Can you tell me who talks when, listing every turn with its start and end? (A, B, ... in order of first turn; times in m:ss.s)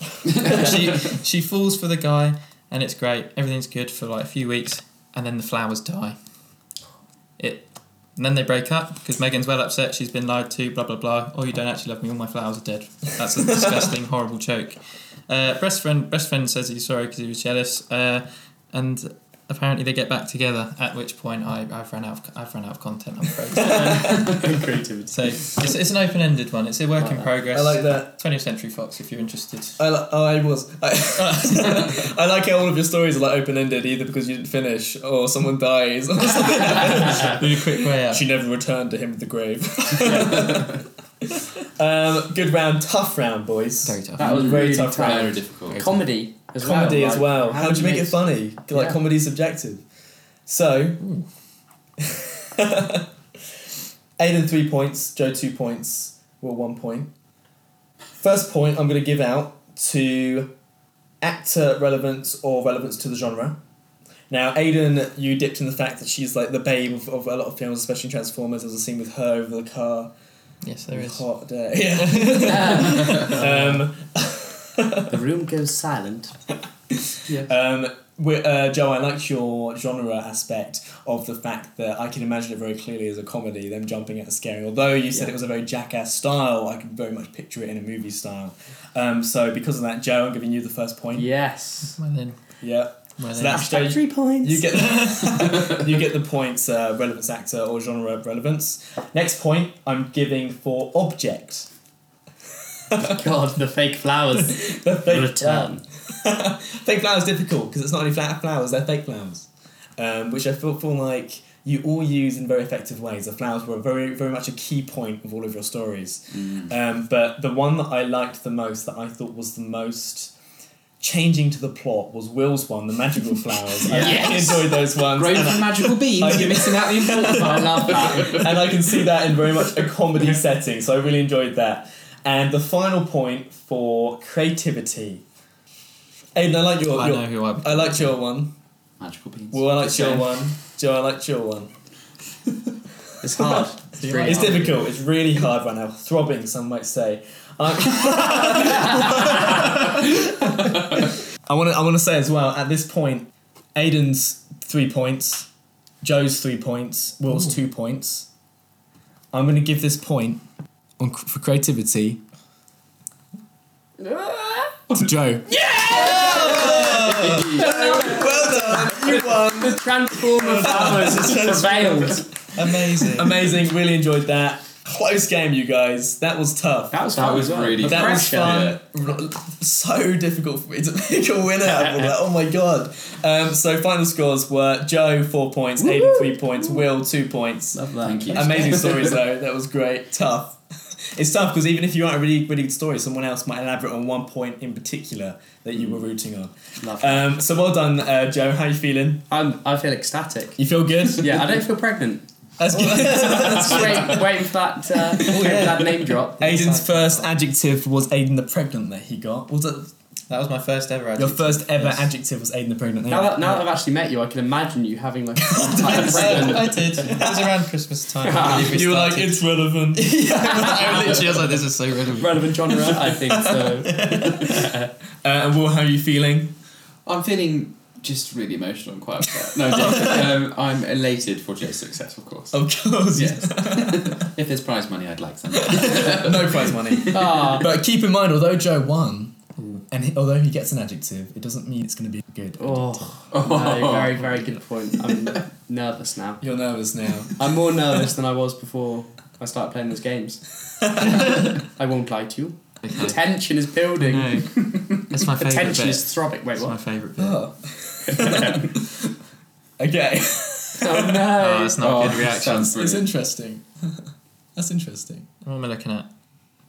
0:00.2-0:06.2 A
0:07.4-0:24.2 A
0:23.6-0:24.8 B
0:23.6-0:25.6 C
0:25.1-0:29.8 A
0:27.0-0:27.3 C
0:27.5-0:28.1 B
0:29.8-0:45.4 B
0:31.2-0:32.0 A
0:36.7-0:38.3 A
0:40.0-0:40.7 C
0:43.8-0:44.8 A
0:44.2-0:48.2 C
0:44.5-0:46.0 D
0:46.6-0:49.8 B
0:50.5-0:51.1 B
0:52.0-0:53.1 B
0:54.2-0:57.1 B
0:58.2-1:00.5 B
1:01.2-1:03.6 B
1:04.3-1:10.1 B
1:10.6-1:11.2 A
1:10.9-1:15.2 B
1:12.0-1:13.3 A
1:12.5-1:13.8 C
1:15.1-1:16.4 C
1:16.9-1:31.3 B
1:31.2-1:32.0 C
1:31.9-1:32.4 A
1:32.6-1:41.7 B
1:33.2-1:33.7 A
1:33.5-1:35.1 C
1:42.9-1:43.2 B
1:43.0-1:45.8 C
1:44.4-2:00.3 B
1:56.3-1:56.7 D
2:01.0-2:15.2 B
2:03.9-2:04.7 C
2:03.9-2:08.8 D
2:07.1-2:08.5 C
2:16.4-2:18.5 B
2:16.9-2:18.2 A
2:19.0-2:20.4 D
2:19.5-2:21.7 B
2:23.2-2:24.8 C
2:23.2-2:23.6 B
2:24.0-2:24.7 A
2:24.2-2:35.5 B
2:36.0-2:38.3 B
2:39.3-2:40.4 B
2:41.0-2:42.2 B
2:44.0-2:44.9 C
2:44.9-2:57.0 B
2:45.5-2:52.3 C
2:46.3-2:47.8 D
2:52.5-2:53.5 A
2:56.9-2:58.7 C
2:57.2-2:58.8 D
2:57.8-3:10.6 B
3:01.8-3:02.1 C
3:05.8-3:06.6 C
3:07.7-3:08.7 C
3:08.0-3:09.2 D
3:11.1-3:19.3 B
3:16.8-3:17.3 C
3:19.3-3:20.6 C
3:20.6-3:21.6 B
3:21.2-3:22.2 C
3:22.6-3:24.3 B
3:22.7-3:24.1 A
3:22.8-3:26.9 C
3:25.1-3:29.9 B
3:25.3-3:25.7 A
3:26.6-3:27.2 A
3:30.3-3:32.1 A
3:31.2-3:33.7 B
3:33.1-3:37.2 C
3:35.4-3:37.6 B
3:35.8-3:39.4 A
3:38.2-3:38.7 C
3:38.4-3:41.6 B
3:40.0-3:42.6 A
3:40.4-3:40.9 C
3:42.2-3:44.9 C
3:42.7-3:46.5 B
3:47.1-3:57.6 D
3:49.4-3:50.4 B
3:52.5-3:54.3 B
3:55.5-3:59.3 B
3:57.1-3:57.7 C
3:59.6-3:59.8 A
3:59.9-4:03.1 B
4:02.6-4:06.4 C
4:03.3-4:04.3 D
4:06.4-4:07.5 B
4:07.4-4:10.4 C
4:10.8-4:11.6 B
4:11.0-4:14.5 C
4:12.8-4:13.2 A
4:14.0-4:17.5 A
4:14.6-4:15.1 D
4:15.3-4:16.8 C
4:17.2-4:19.1 B
4:18.1-4:18.8 C
4:19.8-4:21.3 B
4:20.8-4:22.1 C
4:21.4-4:22.7 A
4:21.8-4:23.1 D
4:22.4-4:25.3 B
4:25.4-4:26.1 A